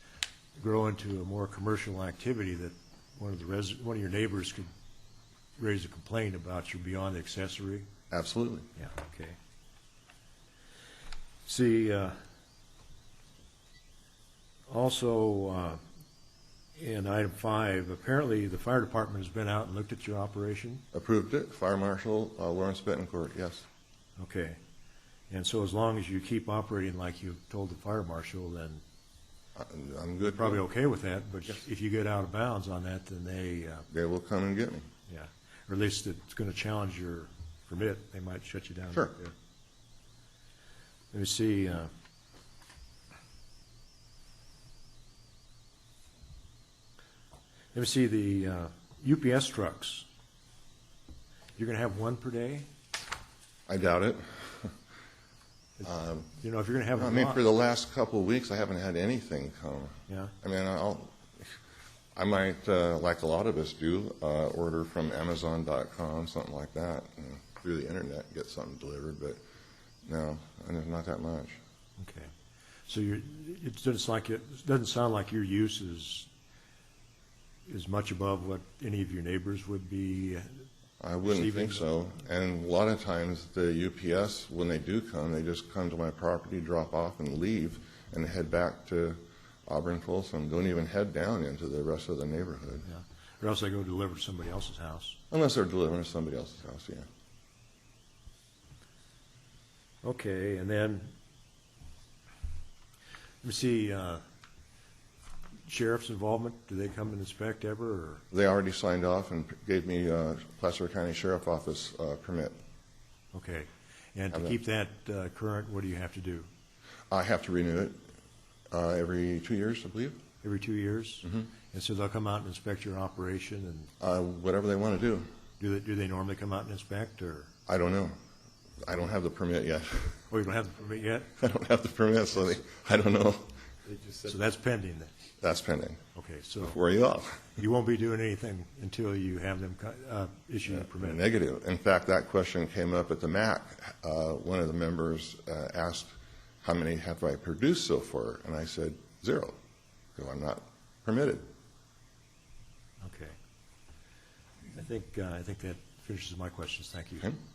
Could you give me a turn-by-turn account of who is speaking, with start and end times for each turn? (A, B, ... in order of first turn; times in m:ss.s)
0:00.6-0:04.7 A
0:05.6-0:07.9 A
0:08.1-0:08.7 B
0:08.8-0:09.4 A
0:11.5-0:12.2 A
0:14.7-0:15.8 A
0:16.8-0:20.8 A
0:20.9-0:23.6 B
0:24.2-0:24.6 A
0:25.3-0:28.8 A
0:29.6-0:30.6 B
0:30.3-0:33.9 A
0:33.9-0:34.9 B
0:35.1-0:39.3 A
0:41.1-0:41.9 A
0:47.7-0:50.0 A
0:51.6-0:52.7 A
0:53.7-0:54.7 B
0:55.8-0:56.3 B
0:56.4-0:57.4 A
0:57.0-1:01.2 B
1:00.1-1:00.3 A
1:02.2-1:09.4 B
1:10.0-1:11.6 B
1:12.0-1:12.3 A
1:12.9-1:16.3 A
1:17.7-1:20.7 A
1:21.0-1:32.9 B
1:21.2-1:21.8 A
1:32.9-1:35.2 A
1:35.3-1:37.1 B
1:40.0-1:41.1 A
1:43.4-1:44.2 A
1:45.7-1:48.2 A
1:48.3-1:52.6 B
1:53.3-1:56.5 A
1:57.1-1:58.0 B
1:58.7-2:00.2 B
2:00.4-2:03.9 A
2:04.0-2:05.3 B
2:05.6-2:07.5 A
2:07.7-2:08.2 B
2:08.8-2:10.2 B
2:10.3-2:11.4 A
2:11.4-2:13.6 B
2:14.2-2:15.1 A
2:15.4-2:16.0 B
2:16.1-2:16.8 A
2:16.6-2:17.5 B
2:17.6-2:21.2 A
2:20.9-2:26.1 B
2:26.6-2:29.6 B
2:30.2-2:31.5 B
2:33.0-2:33.4 A
2:34.7-2:37.3 A